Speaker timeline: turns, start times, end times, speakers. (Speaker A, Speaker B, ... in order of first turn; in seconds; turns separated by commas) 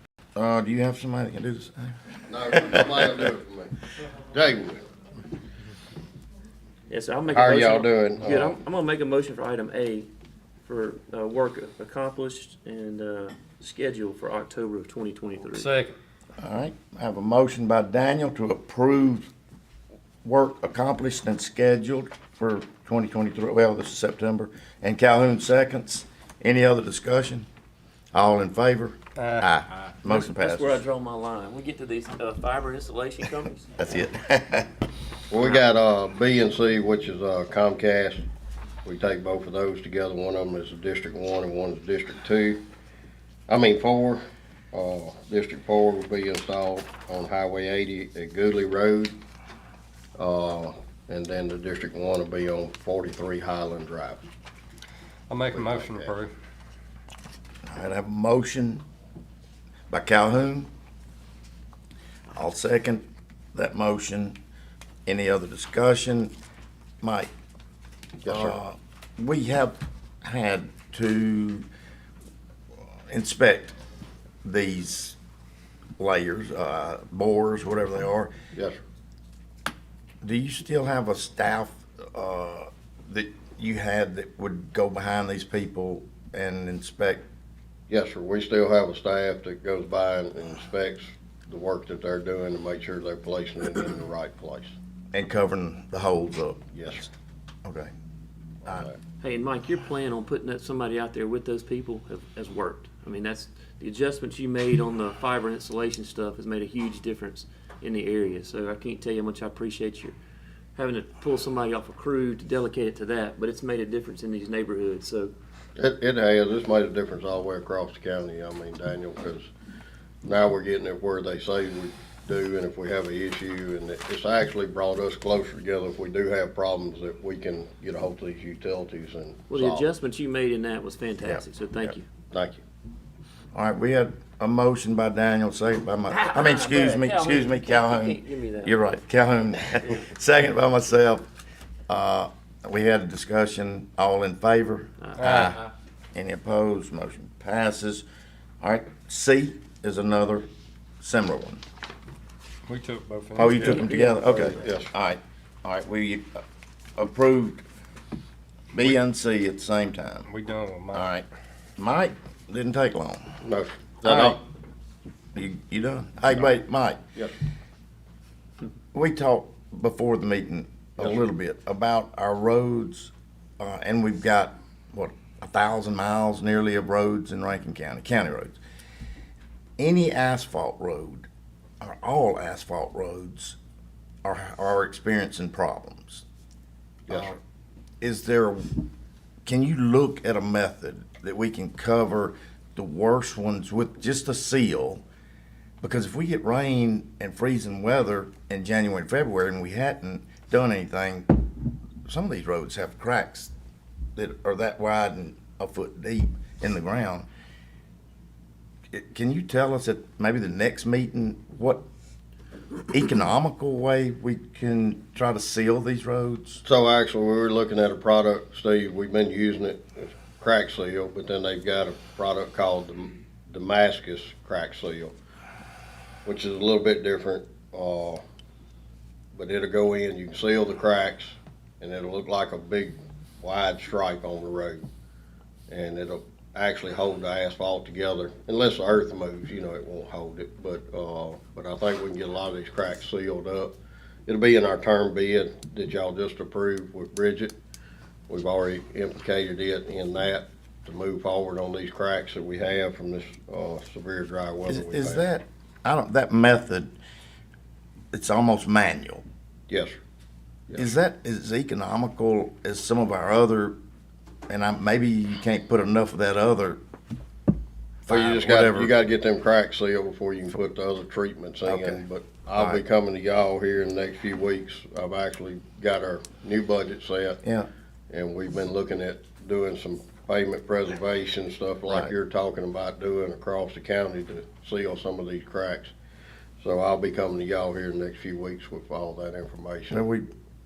Speaker A: 0.3-3.1, Speaker B: 2.3-3.8, Speaker B: 4.3-4.8, Speaker C: 6.9-10.1, Speaker B: 7.3-8.6, Speaker C: 10.6-15.8, Speaker D: 15.5-15.9, Speaker A: 16.4-19.3, Speaker A: 20.2-27.5, Speaker A: 28.1-30.8, Speaker D: 29.2-29.5, Speaker C: 30.1-33.7, Speaker A: 33.8-34.7, Speaker B: 35.3-38.2, Speaker B: 38.8-42.6, Speaker B: 43.5-44.2, Speaker B: 44.7-49.1, Speaker B: 50.2-54.2, Speaker D: 55.3-56.3, Speaker B: 55.5-56.1, Speaker A: 57.6-58.8, Speaker A: 59.9-60.7, Speaker A: 62.3-64.4, Speaker A: 65.1-66.3, Speaker A: 67.0-67.3, Speaker B: 68.2-68.6, Speaker A: 68.3-71.7, Speaker A: 72.9-73.8, Speaker A: 74.4-75.2, Speaker A: 76.0-78.3, Speaker B: 78.5-78.8, Speaker A: 80.2-87.2, Speaker B: 87.9-94.8, Speaker A: 95.1-97.0, Speaker B: 96.7-97.1, Speaker A: 97.7-97.9, Speaker B: 98.7-99.0, Speaker C: 99.2-110.2, Speaker C: 110.8-115.3, Speaker B: 115.8-119.5, Speaker B: 120.2-129.9, Speaker C: 129.5-132.1, Speaker B: 132.3-132.6, Speaker A: 133.5-141.3, Speaker C: 136.1-138.8, Speaker A: 141.9-148.1, Speaker C: 145.0-145.3, Speaker D: 145.2-145.6, Speaker A: 148.6-150.5, Speaker A: 151.0-151.6, Speaker D: 152.7-154.6, Speaker A: 153.3-156.4, Speaker B: 154.5-154.9, Speaker A: 157.0-157.6, Speaker A: 158.7-160.2, Speaker D: 160.3-161.1, Speaker A: 160.9-161.2, Speaker A: 161.8-163.2, Speaker B: 163.4-164.4, Speaker D: 164.1-164.4, Speaker A: 165.3-167.0, Speaker A: 168.9-178.6, Speaker A: 179.8-181.3, Speaker A: 181.8-183.6, Speaker A: 184.2-186.2, Speaker B: 187.1-187.3, Speaker A: 187.1-187.4, Speaker A: 188.0-188.9, Speaker A: 189.4-195.0, Speaker A: 195.8-201.5, Speaker A: 202.1-203.5, Speaker A: 204.2-207.3, Speaker A: 208.9-211.8, Speaker A: 212.9-216.6, Speaker B: 216.6-225.1, Speaker B: 226.2-228.2, Speaker B: 229.3-234.8, Speaker B: 235.7-243.8, Speaker B: 244.3-247.6, Speaker B: 248.3-255.2, Speaker A: 254.7-256.9, Speaker A: 258.1-259.2, Speaker B: 259.7-259.9, Speaker A: 260.8-263.8, Speaker A: 264.5-266.8, Speaker A: 268.1-268.9, Speaker B: 268.1-277.4, Speaker A: 271.6-272.0, Speaker A: 272.6-272.8, Speaker A: 277.4-277.7, Speaker B: 278.1-285.9, Speaker B: 286.6-290.0, Speaker A: 289.9-290.3